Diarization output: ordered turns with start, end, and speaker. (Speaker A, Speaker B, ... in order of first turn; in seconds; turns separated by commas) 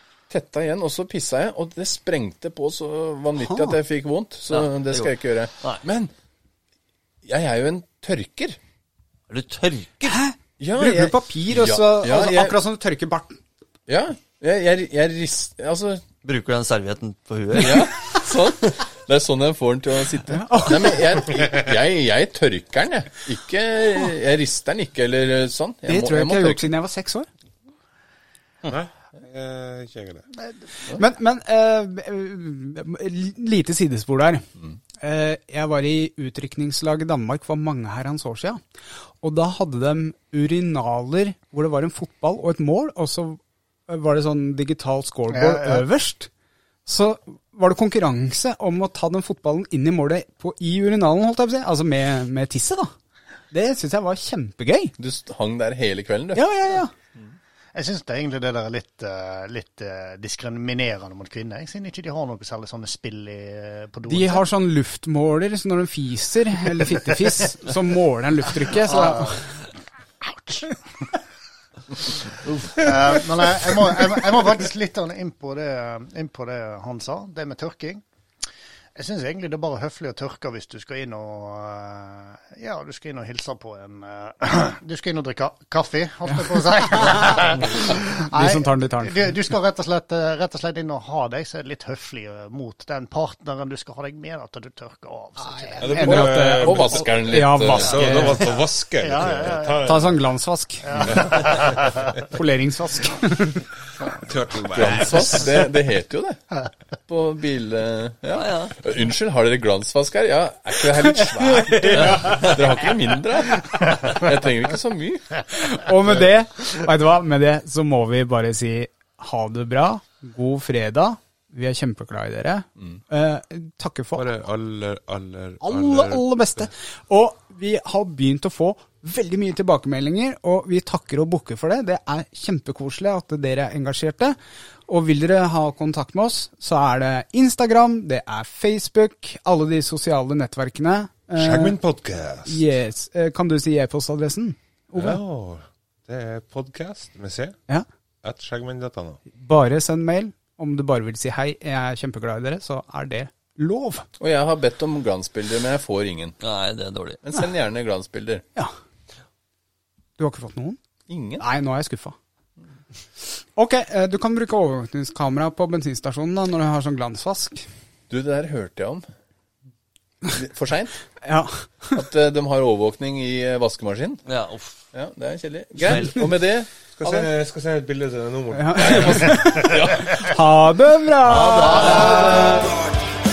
Speaker A: 0.3-6.1, Speaker B: 3.4-3.8, Speaker C: 4.5-5.8, Speaker A: 7.2-8.6, Speaker C: 9.3-10.2, Speaker B: 10.1-13.4, Speaker A: 10.6-12.6, Speaker A: 13.9-16.0, Speaker C: 16.2-18.2, Speaker A: 17.5-26.7, Speaker B: 20.3-21.2, Speaker B: 25.9-27.3, Speaker D: 28.6-30.3, Speaker B: 30.9-34.5, Speaker B: 35.0-38.6, Speaker B: 39.2-46.3, Speaker E: 45.3-45.9, Speaker B: 46.9-52.9, Speaker B: 53.5-54.9, Speaker A: 55.0-56.4, Speaker B: 56.4-56.9, Speaker E: 57.7-64.4, Speaker B: 64.1-69.4, Speaker E: 68.8-69.7, Speaker E: 70.2-70.8, Speaker E: 72.0-78.0, Speaker C: 72.4-72.7, Speaker E: 79.0-96.0, Speaker B: 86.3-87.4, Speaker B: 88.0-89.3, Speaker B: 95.4-98.5, Speaker D: 95.8-100.2, Speaker A: 96.0-98.0, Speaker E: 99.0-99.9, Speaker B: 99.8-101.3, Speaker E: 100.8-102.0, Speaker D: 100.9-101.8, Speaker B: 102.3-103.7, Speaker D: 104.2-105.5, Speaker A: 104.7-106.4, Speaker B: 105.0-105.4, Speaker A: 107.1-115.4, Speaker C: 108.3-108.7, Speaker B: 111.1-112.6, Speaker C: 112.2-112.5, Speaker B: 115.6-124.3, Speaker D: 124.2-126.7, Speaker B: 125.6-141.8, Speaker D: 141.3-142.6, Speaker B: 142.4-145.2, Speaker D: 144.9-147.6, Speaker D: 148.2-149.2, Speaker B: 149.4-154.1, Speaker A: 154.2-156.3, Speaker C: 156.4-157.2, Speaker A: 157.2-158.4, Speaker B: 160.2-160.8, Speaker A: 161.1-161.4, Speaker B: 161.4-162.2, Speaker B: 163.6-167.7, Speaker A: 168.1-169.1, Speaker A: 170.3-171.0, Speaker B: 171.2-172.0, Speaker A: 171.9-174.2, Speaker C: 174.3-174.8, Speaker A: 174.9-177.3, Speaker C: 175.8-176.3, Speaker D: 176.9-179.6, Speaker B: 178.5-182.3, Speaker A: 178.8-180.2, Speaker C: 181.2-182.7, Speaker A: 181.7-182.7